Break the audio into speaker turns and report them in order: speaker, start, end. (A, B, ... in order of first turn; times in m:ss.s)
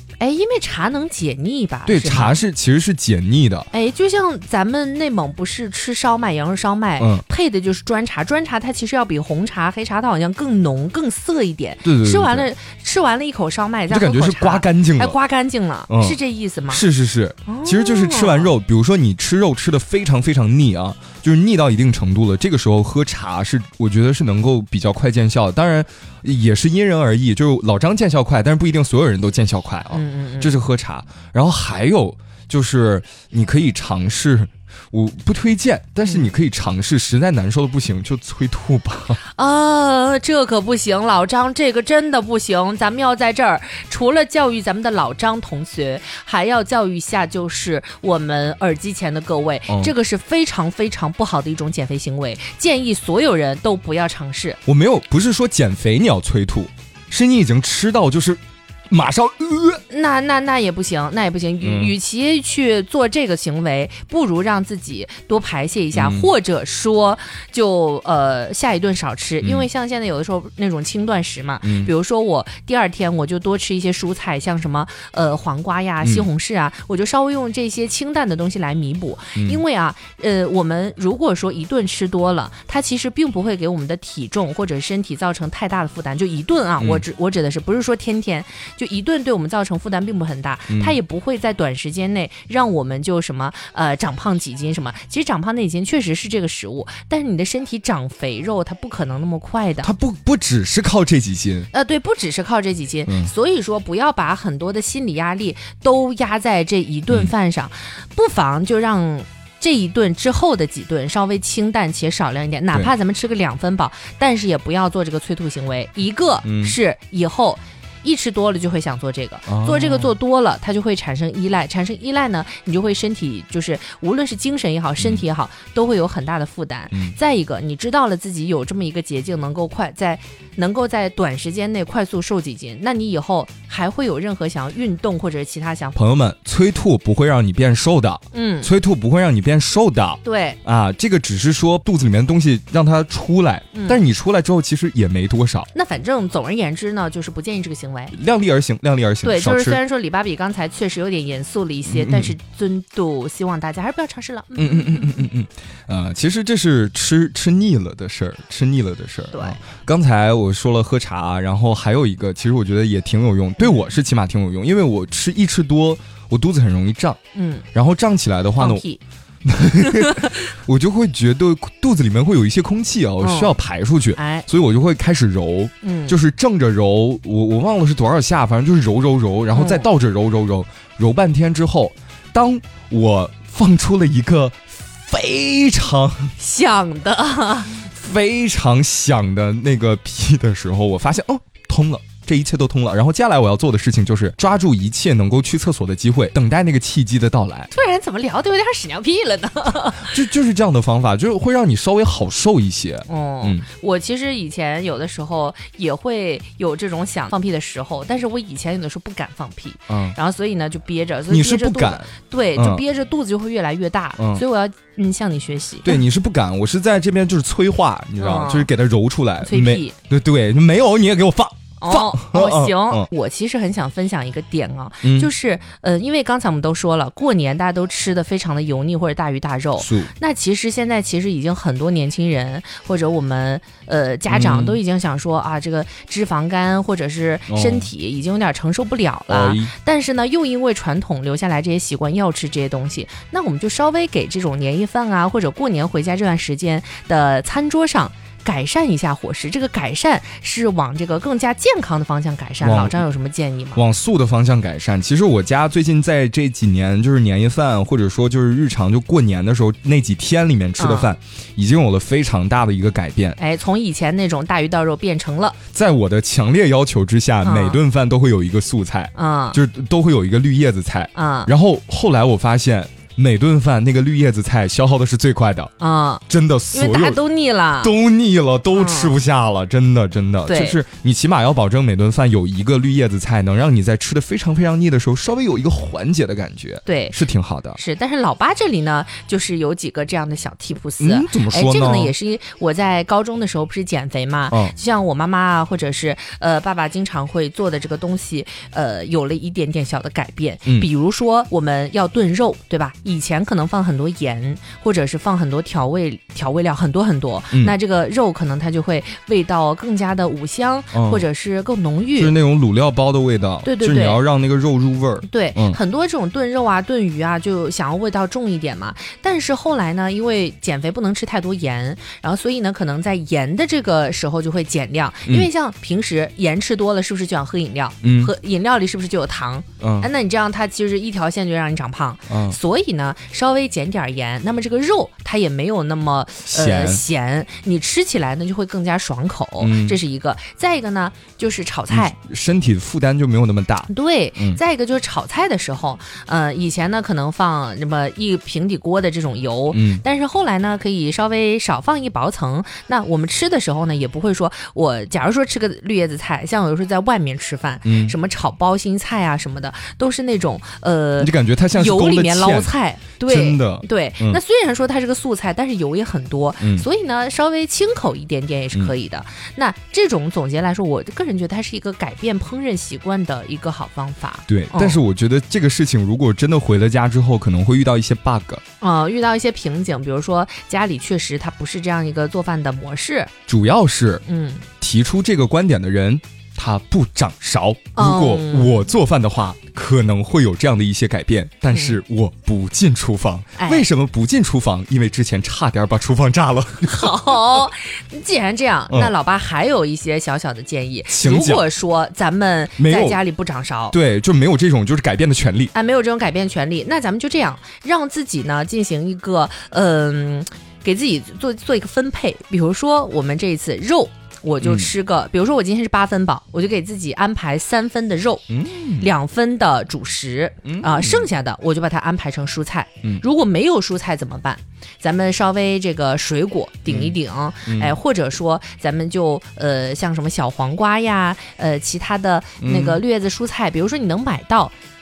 0:00.2-0:02.4 A
0:01.8-0:03.7 B
0:03.7-0:16.8 A
0:07.0-0:07.2 B
0:11.8-0:12.5 B
0:13.9-0:15.2 B
0:15.9-0:16.2 B
0:16.7-0:39.2 B
0:17.4-0:18.5 A
0:29.9-0:30.6 A
0:39.3-0:54.6 A
0:49.7-0:49.9 B
0:54.6-0:59.8 B
0:59.9-1:39.9 A
1:01.6-1:01.9 B
1:05.9-1:06.3 B
1:11.6-1:11.9 B
1:19.4-1:19.6 B
1:30.7-1:31.0 B
1:39.8-1:41.7 B
1:41.7-2:16.0 A
1:56.4-1:56.7 B
1:59.5-2:00.1 B
2:16.0-2:25.7 B
2:18.3-2:18.7 A
2:20.2-2:20.6 A
2:23.7-2:24.0 A
2:25.7-2:28.2 A
2:28.1-2:29.8 B
2:29.2-2:35.2 A
2:31.9-2:32.3 B
2:34.6-2:47.2 B
2:39.3-2:39.6 A
2:47.3-2:47.6 A
2:47.7-2:48.8 B
2:48.6-2:49.0 A
2:49.4-3:06.3 B
2:50.0-2:50.5 A
2:53.2-2:53.5 A
2:54.1-2:54.4 A
2:55.8-2:56.2 A
2:59.5-2:59.9 A
3:06.4-3:07.9 A
3:07.9-3:17.7 B
3:17.7-3:20.2 A
3:20.0-3:23.6 B
3:23.1-3:36.0 A
3:29.9-3:30.2 B
3:31.3-3:32.8 B
3:34.2-3:34.4 B
3:35.8-3:43.1 B
3:38.2-3:38.7 A
3:39.4-3:40.0 A
3:41.8-4:13.8 A
3:45.0-3:45.3 B
3:49.8-3:50.1 B
3:54.3-3:54.8 B
3:57.5-3:57.9 B
3:59.3-3:59.7 B
4:12.6-4:13.0 B
4:13.7-4:23.4 B
4:20.8-4:21.1 A
4:23.4-4:25.6 A
4:25.7-4:35.7 B
4:27.4-4:27.8 A
4:29.1-4:29.6 A
4:31.1-4:31.5 A
4:35.8-4:37.9 A
4:36.3-4:37.2 B
4:37.8-4:47.8 B
4:38.7-4:39.2 A
4:40.5-4:40.8 A
4:46.8-4:47.2 A
4:47.7-5:12.3 A
4:51.0-4:52.1 B
4:54.5-4:54.7 B
5:10.9-5:11.2 B
5:12.2-5:15.8 B
5:13.6-5:14.2 A
5:15.2-5:42.1 A
5:28.0-5:28.3 B
5:29.8-5:30.1 B
5:32.3-5:32.6 B
5:36.4-5:37.0 B
5:39.6-5:40.0 B
5:41.9-5:44.6 B
5:43.9-6:15.0 A
5:49.7-5:50.0 B
5:57.8-5:58.1 B
6:01.2-6:02.7 B
6:03.2-6:04.4 B
6:06.6-6:06.8 B
6:14.5-6:18.6 B
6:18.8-6:23.3 A
6:23.5-6:24.2 B
6:24.2-6:24.6 A
6:24.8-6:37.2 B
6:28.0-6:28.9 A
6:31.7-6:32.0 A
6:33.6-6:33.9 A
6:36.8-6:43.9 A
6:41.1-6:41.6 B
6:42.8-6:43.2 B
6:43.9-6:45.7 B
6:45.7-6:58.4 A
6:54.6-6:54.9 B
6:58.5-6:59.1 B
6:59.0-7:14.7 A
7:00.6-7:01.3 B
7:06.9-7:07.1 B
7:07.6-7:08.0 B
7:12.6-7:13.0 B